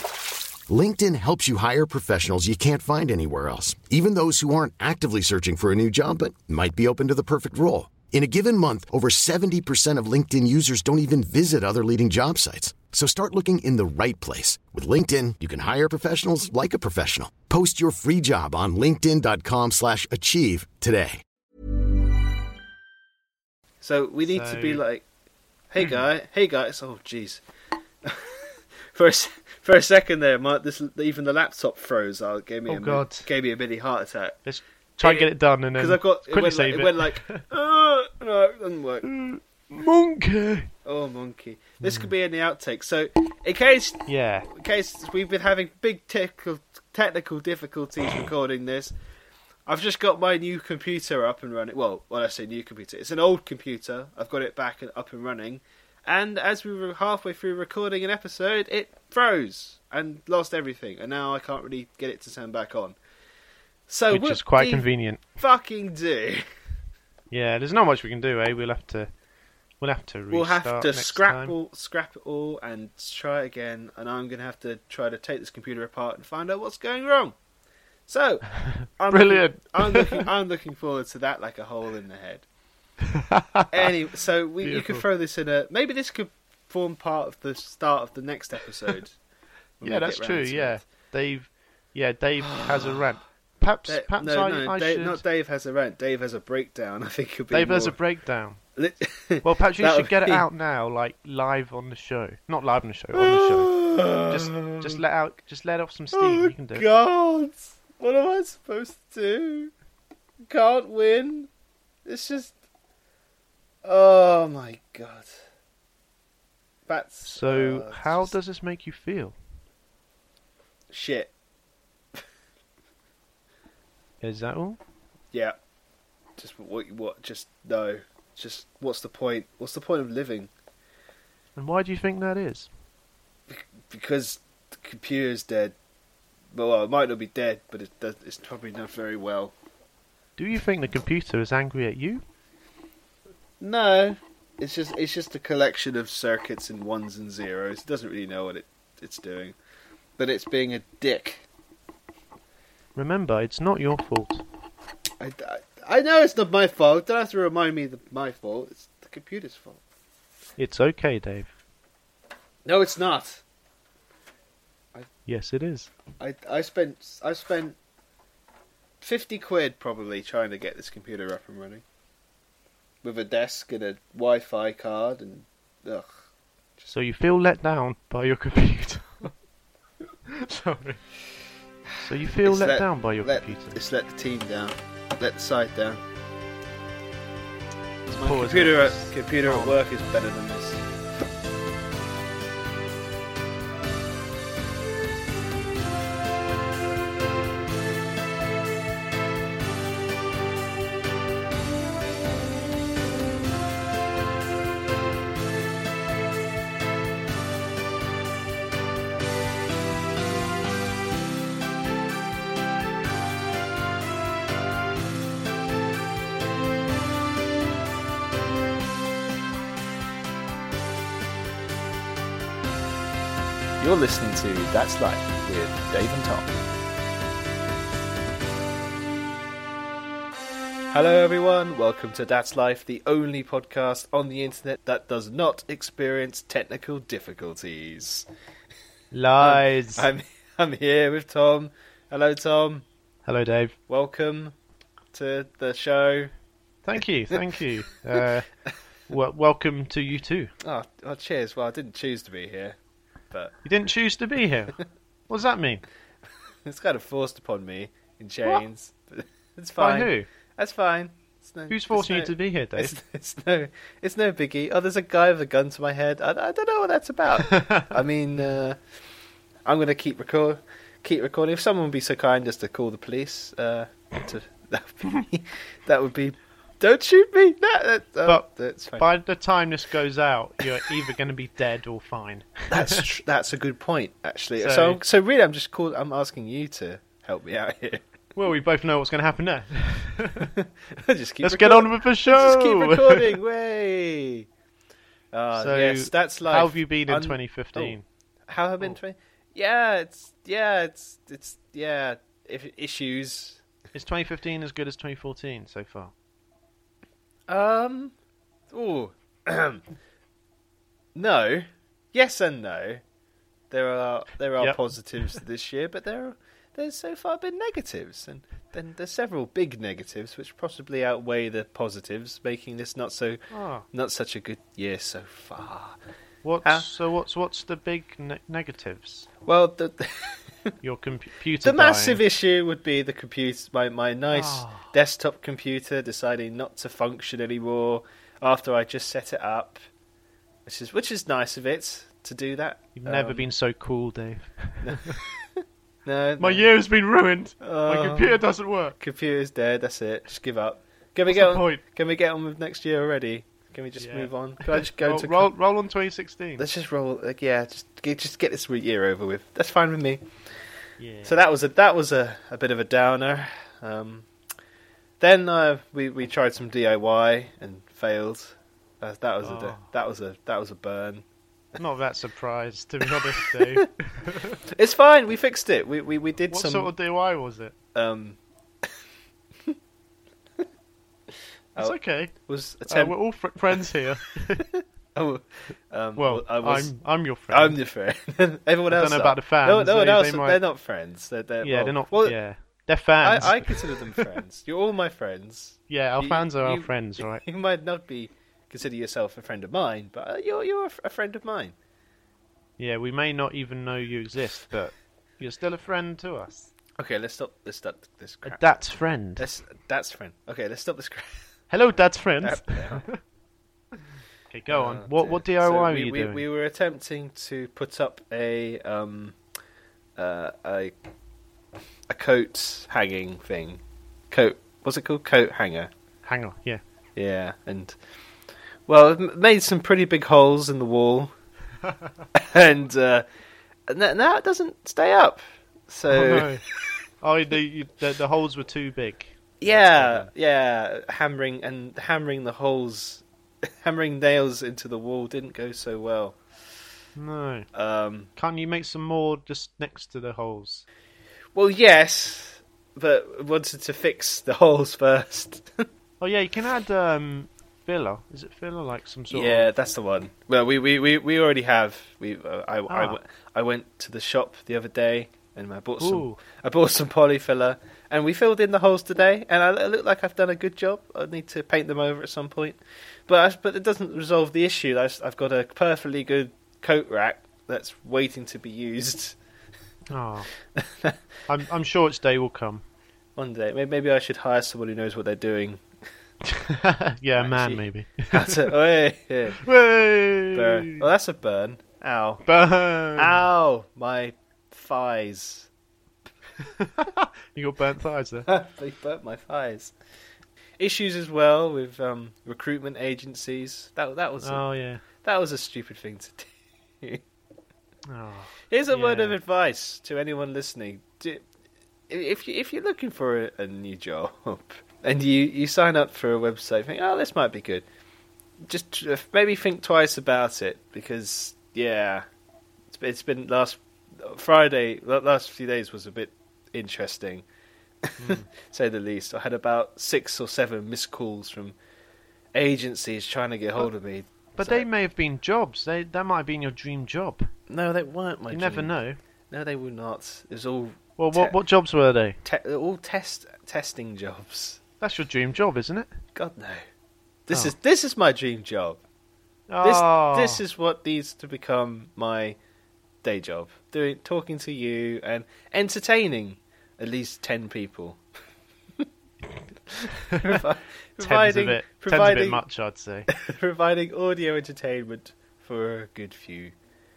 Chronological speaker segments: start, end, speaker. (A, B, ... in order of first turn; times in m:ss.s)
0:00.7-0:21.2 A
0:23.8-0:25.0 B
0:24.3-0:24.8 C
0:25.7-0:27.4 B
0:28.0-0:34.4 B
0:32.7-0:33.3 C
0:34.4-0:37.4 C
0:35.0-0:39.1 B
0:39.0-0:40.7 C
0:40.8-0:48.9 B
0:41.8-0:42.1 C
0:44.1-0:44.5 C
0:49.7-1:03.0 B
1:03.9-1:04.9 B
1:04.1-1:05.2 C
1:05.4-1:06.4 B
1:07.3-1:09.1 C
1:09.8-1:11.5 C
1:10.3-1:17.3 B
1:18.1-1:22.4 B
1:19.1-1:20.2 C
1:23.1-1:23.9 C
1:23.7-1:29.2 B
1:24.6-1:25.0 C
1:29.8-1:30.8 B
1:29.8-1:35.2 C
1:32.4-1:33.1 B
1:33.9-1:38.0 B
1:37.5-1:38.6 C
1:38.8-1:40.4 B
1:39.4-1:46.8 C
1:43.1-1:45.0 B
1:46.1-1:49.7 B
1:50.5-1:51.5 B
1:52.0-1:52.5 B
1:53.8-1:55.3 B
1:56.9-1:58.3 B
1:57.2-1:59.4 C
2:00.9-2:01.3 B
2:04.2-2:04.8 C
2:06.4-2:10.5 B
2:11.6-2:12.7 C
2:13.5-2:15.8 B
2:16.5-2:19.5 B
2:20.4-2:22.2 C
2:23.6-2:29.6 B
2:30.2-2:31.4 B
2:33.0-2:34.4 C
2:35.2-2:39.8 B
2:40.6-2:41.5 C
2:42.6-2:43.4 B
2:45.2-2:45.9 C
2:46.2-2:47.8 B
2:49.0-2:51.8 B
2:53.0-2:56.1 B
2:56.9-2:59.3 C
3:00.3-3:01.0 C
3:02.0-3:03.8 C
3:02.4-3:06.0 B
3:08.1-3:09.8 C
3:08.1-3:10.9 B
3:43.8-3:46.6 B
3:50.9-3:58.3 B
3:59.1-4:00.1 C
3:59.4-4:02.8 B
4:03.2-4:03.8 C
4:03.9-4:04.6 B
4:05.1-4:06.3 B
4:06.8-4:08.5 C
4:07.0-4:07.4 B
4:09.1-4:10.5 C
4:10.6-4:12.8 B
4:13.6-4:14.8 C
4:15.3-4:15.8 C
4:16.6-4:28.8 B
4:19.8-4:20.3 C
4:21.7-4:23.0 C
4:27.4-4:27.9 C
4:29.6-4:39.1 B
4:38.2-4:43.1 C
4:42.7-4:48.0 B
4:44.6-4:45.0 C
4:48.4-4:50.5 C
4:50.6-4:54.5 B
4:51.4-4:53.4 C
4:55.3-5:03.6 B
4:55.5-4:58.0 C
5:03.9-5:06.1 C
5:07.5-5:08.2 B
5:08.7-5:09.8 B
5:11.2-5:13.0 B
5:13.7-5:26.0 B
5:14.6-5:15.4 C
5:23.5-5:23.9 C
5:26.4-5:29.3 C
5:29.5-5:30.7 B
5:30.8-5:32.2 C
5:31.6-5:39.8 B
5:34.3-5:34.9 C
5:40.7-5:43.5 B
5:43.0-5:45.2 C
5:44.8-5:46.7 B
5:46.4-5:49.0 C
5:47.6-5:48.4 B
5:49.0-5:55.5 B
5:51.3-5:51.8 C
5:54.0-5:56.7 C
5:56.6-6:00.2 B
6:01.0-6:01.4 C
6:01.2-6:04.3 B
6:05.2-6:11.2 B
6:09.4-6:09.9 C
6:11.8-6:14.6 C
6:13.1-6:13.9 B
6:14.7-6:16.9 B
6:16.5-6:17.7 C
6:17.9-6:18.9 B
6:21.8-6:23.9 B
6:21.8-6:24.7 C
6:24.6-6:27.0 B
6:26.2-6:27.8 C
6:27.5-6:32.4 B
6:28.9-6:30.6 C
6:31.6-6:34.2 C
6:33.2-6:41.8 B
6:35.9-6:37.4 C
6:42.8-6:46.7 C
6:47.0-6:51.5 B
6:48.4-6:49.5 C
6:51.7-6:53.2 C
6:52.4-6:53.1 B
6:54.5-6:56.4 C
6:54.7-6:59.4 B
7:00.2-7:01.0 B
7:02.1-7:05.9 B
7:06.2-7:06.8 C
7:07.2-7:08.0 B
7:08.9-7:11.3 B
7:12.4-7:13.2 B
7:13.9-7:16.6 B
7:16.1-7:16.6 C
7:17.2-7:20.3 C
7:19.6-7:26.4 B
7:27.2-7:27.7 C
7:27.7-7:28.3 B
7:28.4-7:30.8 C
7:31.5-7:35.9 B
7:36.2-7:39.7 C
7:39.3-7:59.4 B
7:42.9-7:43.2 C
7:46.0-7:46.4 C
8:00.1-8:00.5 C
8:00.7-8:01.2 B
8:01.5-8:02.8 C
8:03.4-8:05.8 B
8:06.4-8:08.7 C
8:07.4-8:09.6 B
8:09.6-8:11.0 C
8:10.5-8:12.4 B
8:12.4-8:13.4 C
8:13.2-8:15.7 B
8:16.6-8:18.5 C
8:18.5-8:19.9 B
8:20.8-8:27.2 B
8:24.4-8:25.0 C
8:28.1-8:29.4 C
8:28.7-8:31.5 B
8:32.1-8:37.9 B
8:38.6-8:42.2 B
8:42.9-8:47.4 B
8:48.0-8:51.8 B
8:48.2-8:48.5 C
8:52.5-8:54.9 B
8:54.6-8:57.5 C
8:57.7-8:58.9 B
8:58.5-8:59.2 C
8:59.5-9:01.6 B
9:01.2-9:02.4 C
9:02.4-9:04.8 B
9:05.0-9:06.1 C
9:06.4-9:06.8 B
9:07.5-9:09.0 B
9:09.7-9:10.6 C
9:09.8-9:12.6 B
9:13.2-9:18.2 B
9:20.3-9:20.6 C
9:20.3-9:22.6 B
9:21.2-9:23.3 C
9:23.3-9:26.8 B